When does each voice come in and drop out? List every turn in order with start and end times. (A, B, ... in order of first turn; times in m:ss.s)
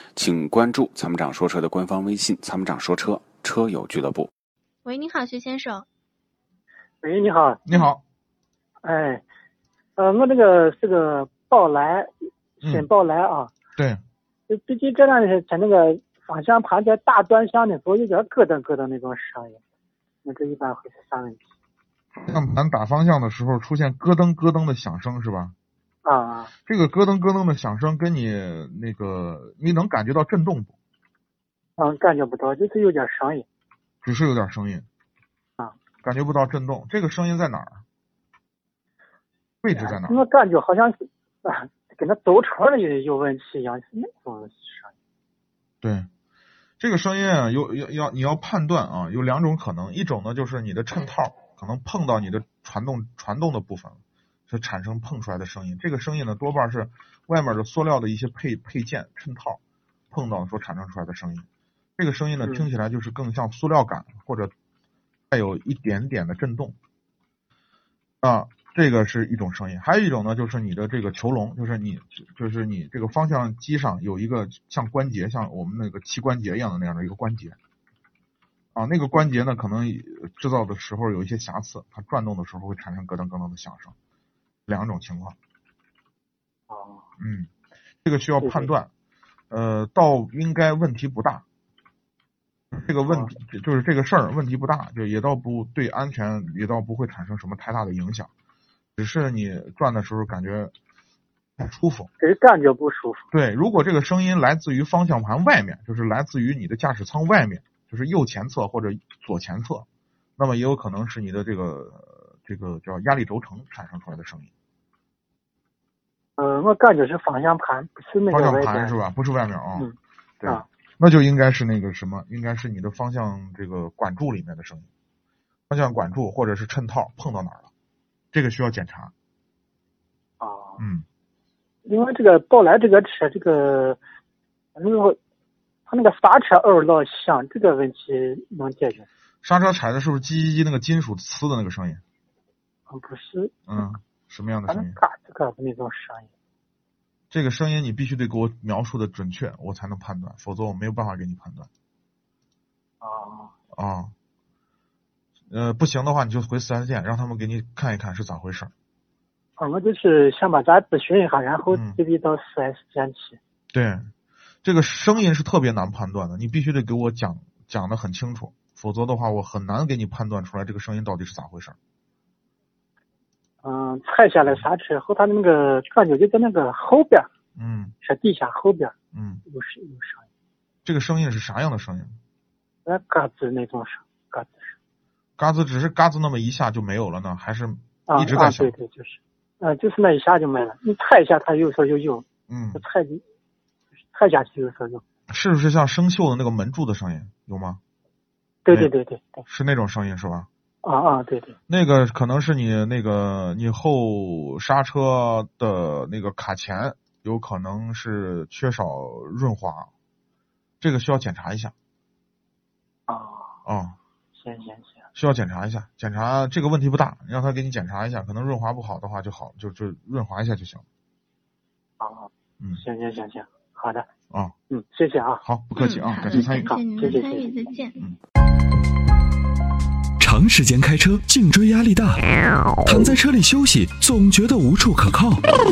0:00.2-0:04.3 A
0:04.8-0:05.9 B
0:07.0-0:07.6 C
0:07.7-0:08.0 D
0:08.8-0:09.2 C
0:10.0-0:13.5 C
0:12.6-0:12.9 D
0:13.8-0:14.0 D
0:14.5-0:19.6 C
0:20.2-0:21.5 C
0:22.2-0:25.6 D
0:26.0-0:26.5 C
0:26.7-0:30.8 D
0:31.8-0:33.5 C
0:34.0-0:34.9 D
0:36.0-0:37.8 D
0:39.6-0:40.2 D
0:39.8-0:44.9 C
0:45.8-0:46.1 D
0:46.8-0:59.6 D
1:00.1-1:01.5 D
1:02.0-1:04.5 D
1:05.3-1:06.8 D
1:08.2-1:17.6 D
1:18.8-1:24.0 D
1:24.7-1:25.4 D
1:26.7-1:27.1 C
1:27.2-1:27.5 D
1:28.0-1:28.9 D
1:28.4-1:28.7 C
1:29.5-1:31.4 D
1:32.7-1:38.3 D
1:39.0-1:40.7 D
1:41.6-1:42.1 D
1:42.2-1:43.3 C
1:43.3-1:49.9 D
1:50.4-1:54.5 D
1:56.4-1:59.0 C
1:58.3-1:59.9 D
2:00.4-2:04.9 D
2:05.7-2:07.7 D
2:08.3-2:09.1 D
2:10.4-2:10.8 C
2:10.8-2:11.0 D
2:11.9-2:14.0 C
2:14.8-2:15.2 C
2:15.9-2:19.1 C
2:19.4-2:22.0 D
2:22.9-2:23.6 C
2:23.7-2:25.0 D
2:24.7-2:26.3 C
2:27.3-2:31.7 D
2:33.0-2:33.5 C
2:33.7-2:34.1 D
2:35.5-2:38.7 D
2:39.6-2:43.4 C
2:41.7-2:42.0 D
2:43.7-2:44.1 D
2:44.6-2:51.8 D
2:53.6-2:57.3 C
2:57.6-2:57.9 D
2:58.0-2:58.9 C
2:59.1-2:59.4 D
2:59.5-3:00.3 C
3:00.8-3:02.2 D
3:02.9-3:04.7 C
3:05.4-3:08.7 D
3:08.1-3:13.2 C
3:12.5-3:12.8 D
3:14.1-3:15.0 C
3:15.3-3:17.8 D
3:18.6-3:19.4 C
3:19.5-3:20.5 D
3:20.8-3:21.6 C
3:21.7-3:29.9 D
3:30.8-3:31.7 D
3:33.1-3:33.6 C
3:33.7-3:34.0 D
3:34.4-3:35.0 C
3:35.2-3:40.8 D
3:42.0-3:44.1 C
3:44.3-3:44.6 D
3:44.7-3:45.4 C
3:45.4-3:46.8 D
3:45.8-3:48.0 B
3:46.3-3:47.5 C
3:50.2-3:52.2 E
3:52.8-3:55.4 E